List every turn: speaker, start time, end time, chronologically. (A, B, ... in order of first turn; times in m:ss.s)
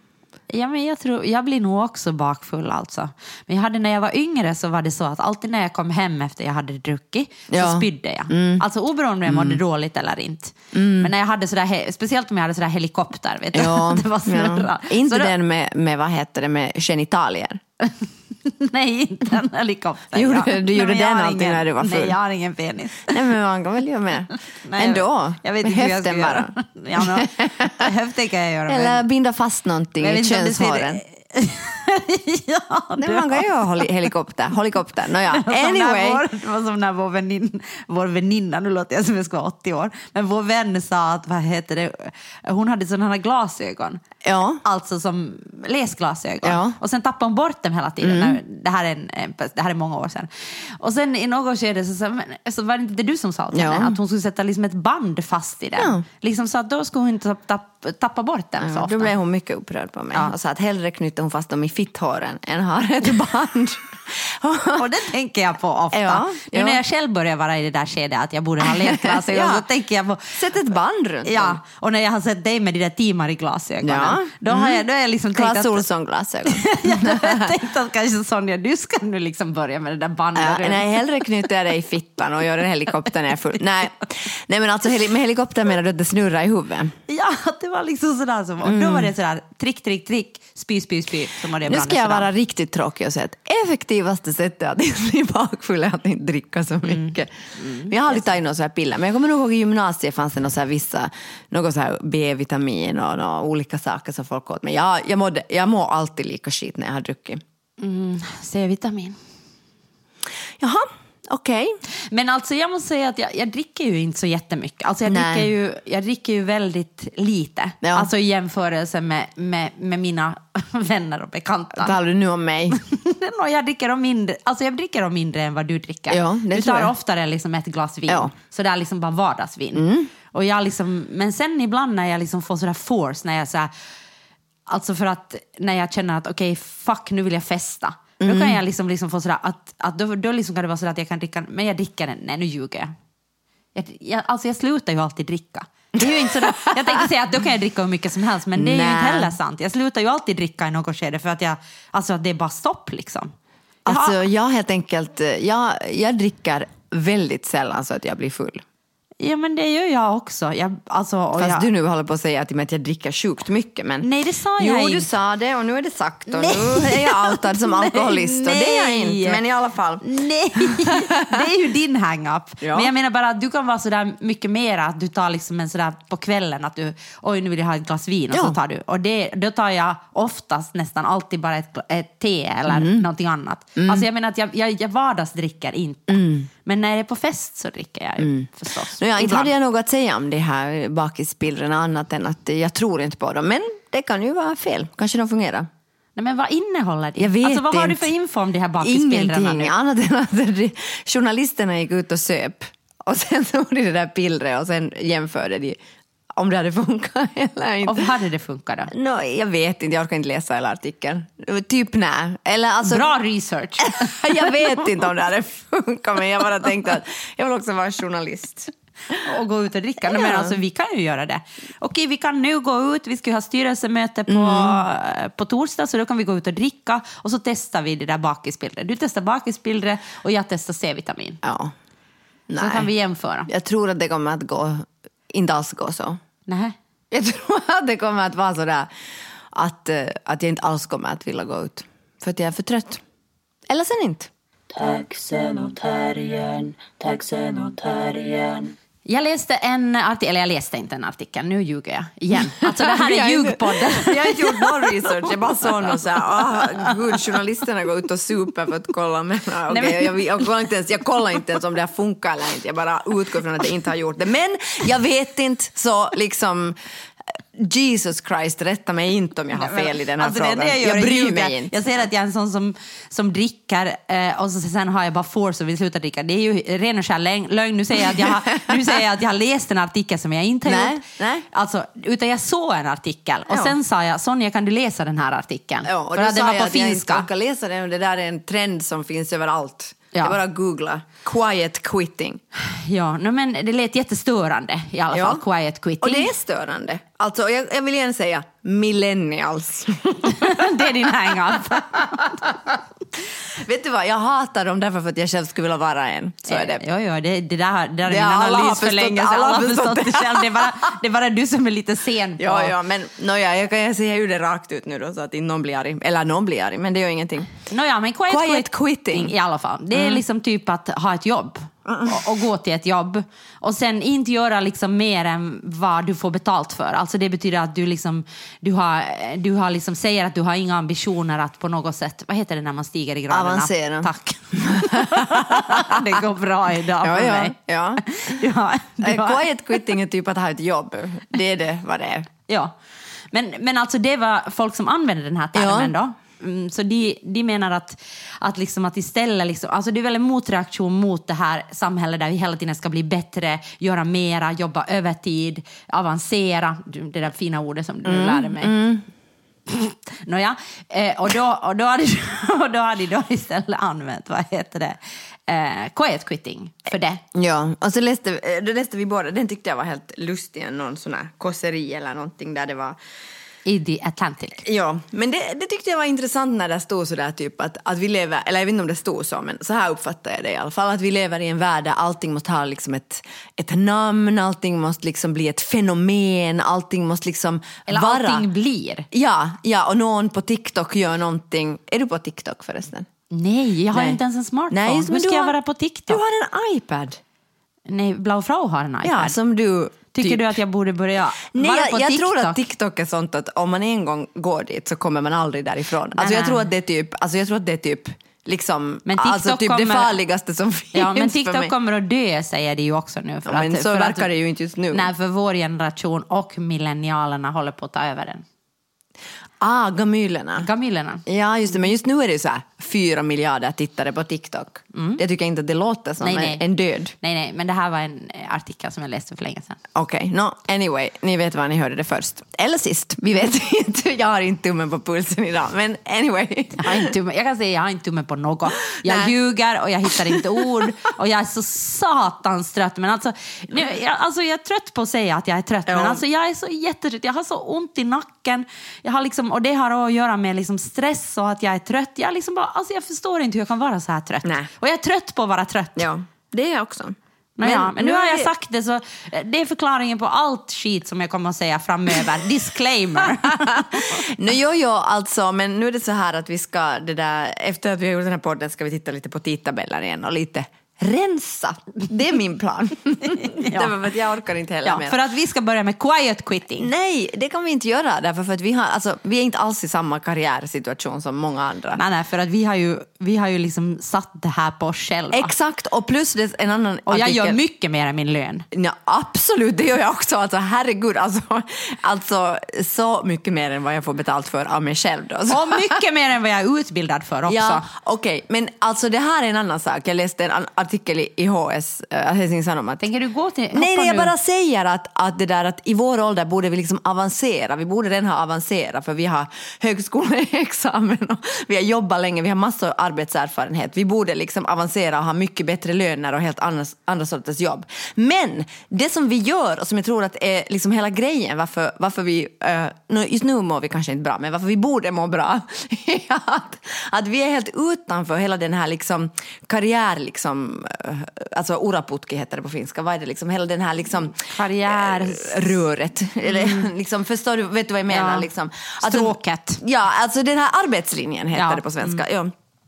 0:00.5-0:15.3 A
0:07.5-0:08.6 B
0:09.3-0:09.6 B
0:10.7-0:11.1 B
0:13.5-0:17.6 B
0:17.9-0:23.2 A
0:20.1-0:22.2 B
0:23.1-0:27.9 B
0:24.6-0:29.0 A
0:28.7-0:31.0 B
0:30.0-0:33.8 A
0:33.0-0:36.2 B
0:35.3-0:44.0 A
0:44.2-0:44.6 B
0:44.6-0:59.1 A
0:46.4-0:46.8 B
0:48.0-0:48.4 B
0:53.5-0:54.0 B
0:55.8-0:56.0 B
0:58.6-1:04.9 B
1:04.8-1:10.4 A
1:05.9-1:06.8 B
1:08.6-1:09.7 B
1:10.4-1:11.6 B
1:11.2-1:15.8 A
1:13.8-1:17.6 B
1:16.5-1:21.2 A
1:20.4-1:26.9 B
1:27.1-1:32.3 A
1:28.6-1:29.1 B
1:31.7-1:47.4 B
1:36.9-1:37.9 A
1:47.8-1:49.2 A
1:50.6-1:51.8 B
1:52.1-2:02.0 A
1:55.1-1:55.5 B
1:57.8-1:58.1 B
2:01.8-2:02.8 B
2:02.7-2:13.7 A
2:06.1-2:06.9 B
2:09.8-2:10.1 B
2:14.7-2:22.9 A
2:18.2-2:18.6 B
2:23.8-2:33.3 A
2:26.0-2:27.1 B
2:28.6-2:29.3 B
2:33.9-2:34.2 A
2:33.9-2:38.6 B
2:39.2-2:41.7 A
2:41.4-2:44.1 B
2:44.0-2:45.1 A
2:44.6-2:51.4 B
2:46.3-2:49.4 A
2:50.0-3:09.5 A
2:52.6-2:52.9 B
2:58.3-2:58.6 B
3:02.7-3:03.1 B
3:03.8-3:04.0 B
3:06.1-3:06.5 B
3:08.2-3:15.7 B
3:16.2-3:19.7 A
3:17.2-3:18.1 B
3:18.8-3:25.8 B
3:26.4-3:28.1 B
3:27.8-3:28.9 A
3:28.9-3:33.1 B
3:32.8-3:34.8 A
3:33.8-3:39.2 B
3:39.2-3:51.4 A
3:40.0-3:40.6 B
3:44.3-3:44.8 B
3:51.4-3:51.7 B
3:52.5-3:52.9 B
3:52.6-3:53.5 A
3:53.5-3:56.2 B
3:56.5-3:56.8 A
3:57.1-3:58.9 B
3:59.5-4:03.0 B
4:03.7-4:04.3 B
4:04.7-4:08.7 C
4:09.1-4:15.3 A
4:12.6-4:26.8 B
4:16.5-4:17.2 A
4:19.7-4:20.5 A
4:27.5-4:31.9 B
4:29.5-4:47.3 A
4:38.1-4:39.0 B
4:40.7-4:41.5 B
4:43.5-4:43.8 B
4:45.8-4:52.4 B
4:52.6-4:56.4 A
4:55.1-4:55.4 B
4:56.0-5:02.8 B
5:00.2-5:02.6 A
5:03.5-5:06.8 B
5:06.5-5:12.8 A
5:08.1-5:10.9 B
5:12.4-5:17.6 B
5:17.7-5:39.8 A
5:18.3-5:19.3 B
5:19.9-5:20.2 B
5:21.9-5:22.2 B
5:33.3-5:36.1 B
5:37.0-5:38.0 B
5:39.0-5:42.3 B
5:42.5-5:42.7 A
5:43.3-5:58.7 A
5:45.6-5:45.9 B
5:58.0-5:59.1 B
5:59.7-6:07.2 A
6:07.3-6:13.0 B
6:13.6-6:14.6 A
6:14.6-6:28.5 B
6:27.9-6:29.1 A
6:29.1-6:33.1 B
6:33.3-6:36.2 A
6:33.9-6:35.6 B
6:36.1-6:37.2 B
6:37.9-6:39.4 A
6:39.0-6:40.6 B
6:40.1-6:42.6 A
6:41.5-6:51.7 B
6:46.2-6:46.7 A
6:49.1-6:50.1 A
6:50.9-6:54.3 A
6:53.5-6:55.1 B
6:54.9-6:58.4 A
6:59.6-7:00.7 B
7:00.6-7:01.2 A
7:01.3-7:07.1 B
7:04.9-7:05.2 A
7:06.2-7:06.6 A
7:07.2-7:09.8 A
7:10.0-7:17.1 B
7:16.8-7:36.1 A
7:18.9-7:19.3 B
7:20.1-7:20.9 B
7:25.9-7:26.2 B
7:34.4-7:34.7 B
7:36.0-7:38.5 B
7:37.6-7:44.3 A
7:43.2-7:55.2 B
7:53.2-7:54.0 A
7:54.8-7:56.9 A
7:56.8-8:02.0 B
8:02.0-8:05.5 A
8:05.3-8:07.6 B
8:07.1-8:08.7 A
8:08.7-8:16.0 B
8:15.5-8:17.9 A
8:17.5-8:23.1 B
8:23.0-8:24.3 A
8:23.7-9:02.5 B
8:54.4-8:55.8 A
8:56.4-8:56.9 A
8:58.1-8:58.5 A
8:59.0-8:59.8 A
9:01.6-9:02.2 A